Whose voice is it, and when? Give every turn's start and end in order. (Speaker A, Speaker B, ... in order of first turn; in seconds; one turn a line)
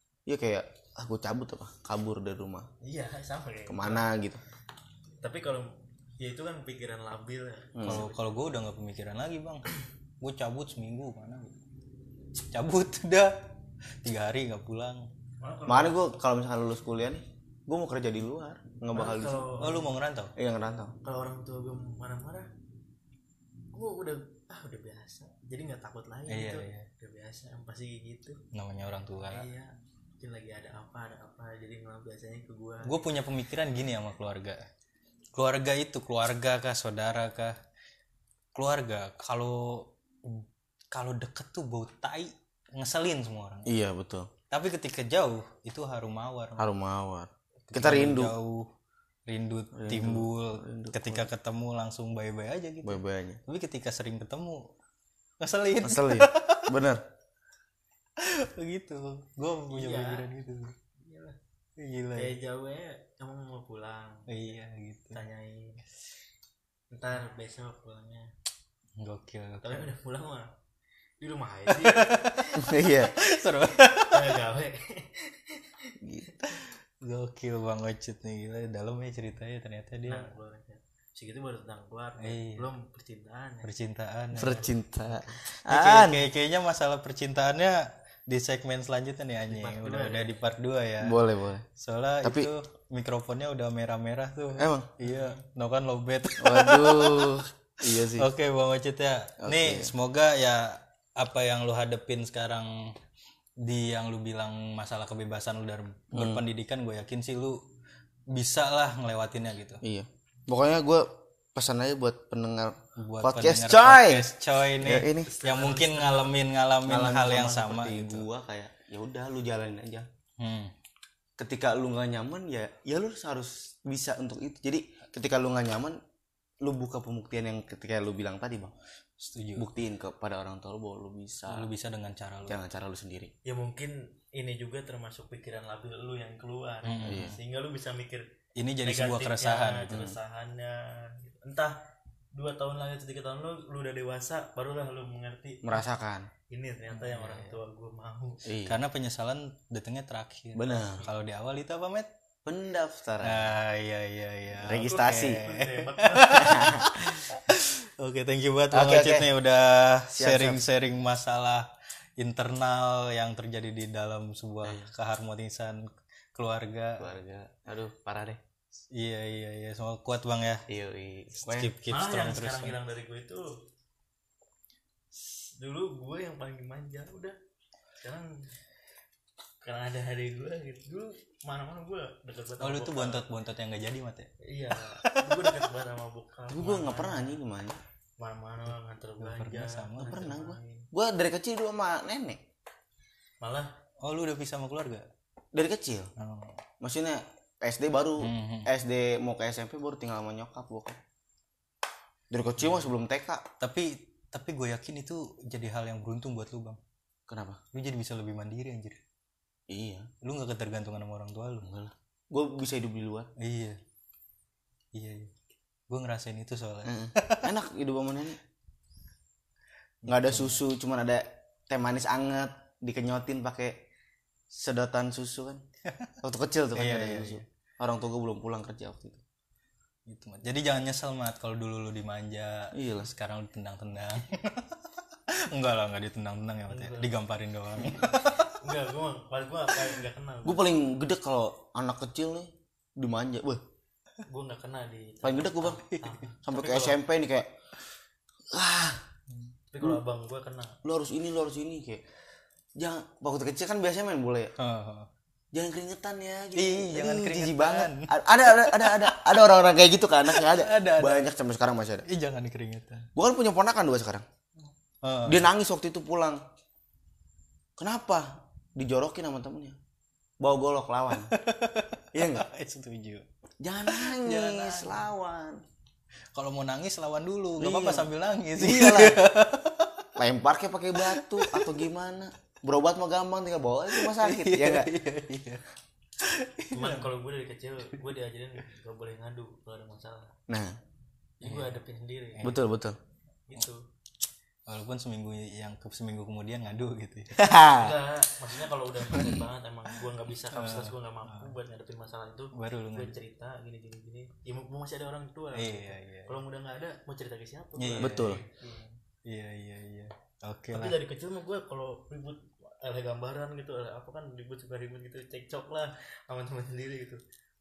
Speaker A: 0.2-2.7
Speaker B: 2.8-4.1
Speaker A: 3.7-4.4
Speaker B: 5.2-8.3
Speaker A: 7.7-8.0
Speaker C: 7.8-9.7
Speaker C: 10.2-11.6
Speaker C: 12.3-13.3
Speaker C: 14.0-15.1
Speaker B: 15.4-16.0
Speaker A: 15.7-19.5
Speaker B: 18.9-19.9
Speaker C: 19.6-20.3
Speaker A: 20.4-20.9
Speaker B: 21.0-22.5
Speaker B: 23.7-28.4
Speaker C: 26.3-26.9
Speaker C: 28.5-29.5
Speaker B: 29.3-32.9
Speaker C: 32.8-34.6
Speaker C: 35.3-37.5
Speaker C: 38.5-43.8
Speaker A: 43.6-44.3
Speaker C: 44.5-46.6
Speaker A: 46.6-48.3
Speaker C: 47.7-48.6
Speaker C: 49.3-54.6
Speaker A: 49.7-51.3
Speaker A: 52.8-53.4
Speaker C: 55.4-56.7
Speaker A: 55.8-57.0
Speaker C: 58.2-60.7
Speaker B: 59.7-60.3
Speaker B: 61.0-61.4
Speaker C: 61.8-62.3
Speaker B: 62.1-64.5
Speaker C: 64.3-65.2
Speaker B: 65.1-65.8
Speaker B: 66.9-68.3
Speaker C: 69.0-69.9
Speaker B: 69.6-70.5
Speaker B: 71.2-72.7
Speaker C: 71.7-74.4
Speaker A: 72.6-73.1
Speaker B: 73.9-76.0
Speaker A: 76.0-76.4
Speaker C: 76.5-80.3
Speaker B: 80.1-83.7
Speaker C: 82.2-82.7
Speaker C: 83.6-84.7
Speaker A: 84.3-86.2
Speaker C: 85.7-91.2
Speaker B: 89.5-90.4
Speaker A: 91.0-91.6
Speaker C: 91.8-102.9
Speaker A: 92.2-92.5
Speaker A: 94.6-94.9
Speaker A: 96.4-98.3
Speaker A: 99.4-99.9
Speaker C: 103.6-107.6
Speaker A: 106.1-106.4
Speaker C: 108.3-109.8
Speaker A: 109.8-115.3
Speaker C: 113.0-118.3
Speaker B: 115.2-116.3
Speaker A: 116.8-120.1
Speaker C: 120.4-120.7
Speaker A: 121.4-126.0
Speaker A: 126.6-128.7
Speaker C: 129.2-129.7
Speaker A: 129.6-131.7
Speaker C: 131.5-132.6
Speaker A: 132.5-133.3
Speaker B: 133.4-138.2
Speaker C: 136.8-137.3
Speaker A: 137.1-137.4
Speaker C: 138.6-140.0
Speaker B: 138.8-141.7
Speaker A: 139.9-140.2
Speaker B: 142.3-145.8
Speaker A: 145.6-146.3
Speaker B: 146.5-148.5
Speaker C: 146.9-147.5
Speaker A: 148.4-148.8
Speaker C: 148.6-152.1
Speaker A: 150.6-151.1
Speaker A: 152.4-153.5
Speaker C: 153.2-167.1
Speaker A: 154.6-155.4
Speaker B: 154.8-156.6
Speaker A: 156.3-157.2
Speaker A: 158.7-159.3
Speaker A: 160.1-160.6
Speaker A: 164.6-164.9
Speaker A: 167.0-168.4
Speaker C: 168.9-170.6
Speaker A: 170.7-171.7
Speaker C: 171.4-172.8
Speaker B: 171.9-173.5
Speaker B: 175.2-177.3
Speaker B: 178.0-178.3
Speaker B: 179.6-183.3
Speaker C: 182.6-185.6
Speaker B: 184.5-187.4
Speaker A: 186.5-187.8
Speaker B: 188.2-190.9
Speaker C: 189.2-190.2
Speaker A: 190.0-192.4
Speaker B: 193.4-193.7
Speaker C: 194.0-195.1
Speaker A: 195.5-196.1
Speaker C: 196.2-196.6
Speaker A: 196.8-201.0
Speaker C: 198.2-198.7
Speaker A: 202.3-203.4
Speaker C: 203.6-206.8
Speaker A: 207.3-207.6
Speaker C: 207.7-209.0
Speaker A: 209.7-210.1
Speaker C: 210.2-211.7
Speaker A: 211.6-213.3
Speaker C: 213.4-213.8
Speaker C: 214.9-215.3
Speaker C: 215.9-217.5
Speaker A: 216.8-218.4
Speaker C: 220.0-220.6
Speaker A: 220.1-223.8
Speaker A: 224.5-225.6
Speaker C: 225.9-226.1
Speaker A: 226.2-229.2
Speaker C: 226.7-227.4
Speaker C: 230.1-238.6
Speaker A: 232.7-233.1
Speaker B: 236.7-237.1
Speaker B: 238.4-240.7
Speaker A: 240.4-243.6
Speaker B: 244.3-246.9
Speaker A: 245.2-245.8
Speaker C: 245.9-246.2
Speaker A: 246.4-247.5
Speaker A: 248.5-249.0
Speaker B: 249.7-250.8
Speaker A: 250.8-252.0
Speaker A: 252.8-254.5
Speaker C: 254.6-255.1
Speaker A: 255.5-262.1
Speaker C: 256.5-259.3
Speaker C: 260.3-261.3
Speaker C: 262.0-263.1
Speaker A: 263.1-264.2
Speaker C: 265.0-265.5
Speaker A: 265.2-266.4
Speaker A: 267.8-269.8
Speaker A: 270.4-271.3
Speaker C: 271.2-273.2
Speaker A: 272.1-272.5
Speaker A: 273.6-275.6
Speaker C: 273.8-275.1
Speaker C: 276.3-280.1
Speaker A: 277.6-279.2
Speaker A: 280.1-284.9
Speaker C: 281.0-281.7
Speaker C: 283.9-285.6
Speaker C: 286.2-287.1
Speaker B: 286.7-290.3
Speaker A: 290.5-290.8
Speaker B: 291.4-292.5
Speaker C: 291.4-291.8
Speaker A: 292.4-293.0
Speaker B: 293.5-293.8
Speaker C: 294.7-297.4
Speaker A: 297.3-298.0
Speaker B: 297.7-308.9
Speaker A: 299.1-299.4
Speaker C: 300.5-301.5
Speaker C: 302.5-303.1
Speaker C: 305.5-306.4
Speaker C: 307.8-308.4
Speaker A: 308.0-308.4
Speaker C: 309.2-311.0
Speaker B: 310.7-317.2